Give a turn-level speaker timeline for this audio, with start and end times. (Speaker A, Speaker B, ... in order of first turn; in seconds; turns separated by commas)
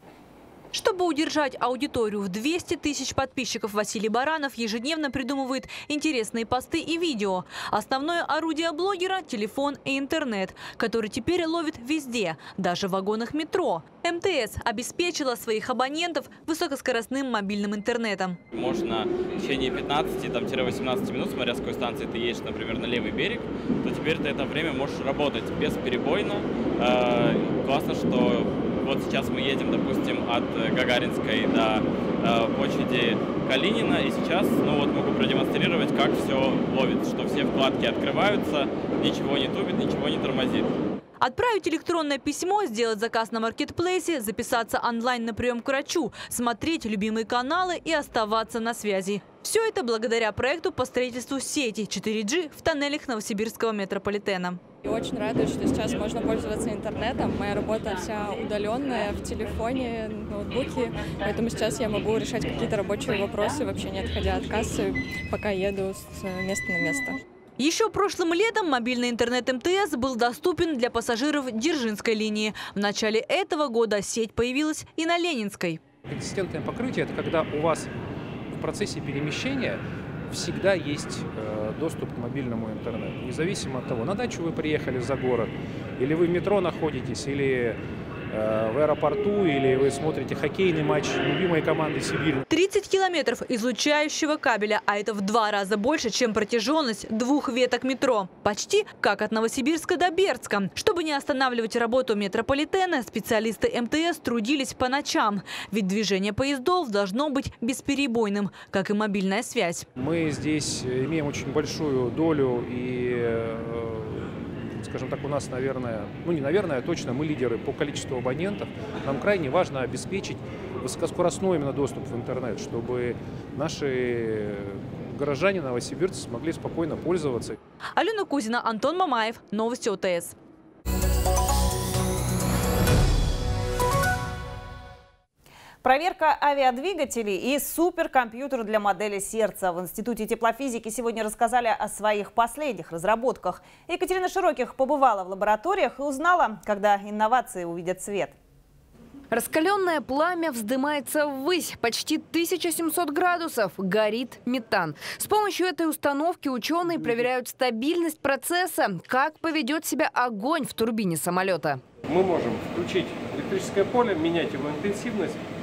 Speaker A: 0.7-18.4, Speaker B: 18.5-40.7, Speaker A: 41.2-54.6, Speaker C: 54.8-67.2, Speaker A: 67.6-75.8, Speaker D: 76.1-77.9, Speaker D: 78.5-87.8, Speaker D: 88.3-92.4, Speaker A: 92.5-109.9, Speaker D: 110.0-127.6, Speaker A: 128.0-130.4, Speaker E: 135.8-148.3, Speaker F: 149.3-161.8, Speaker G: 162.1-165.4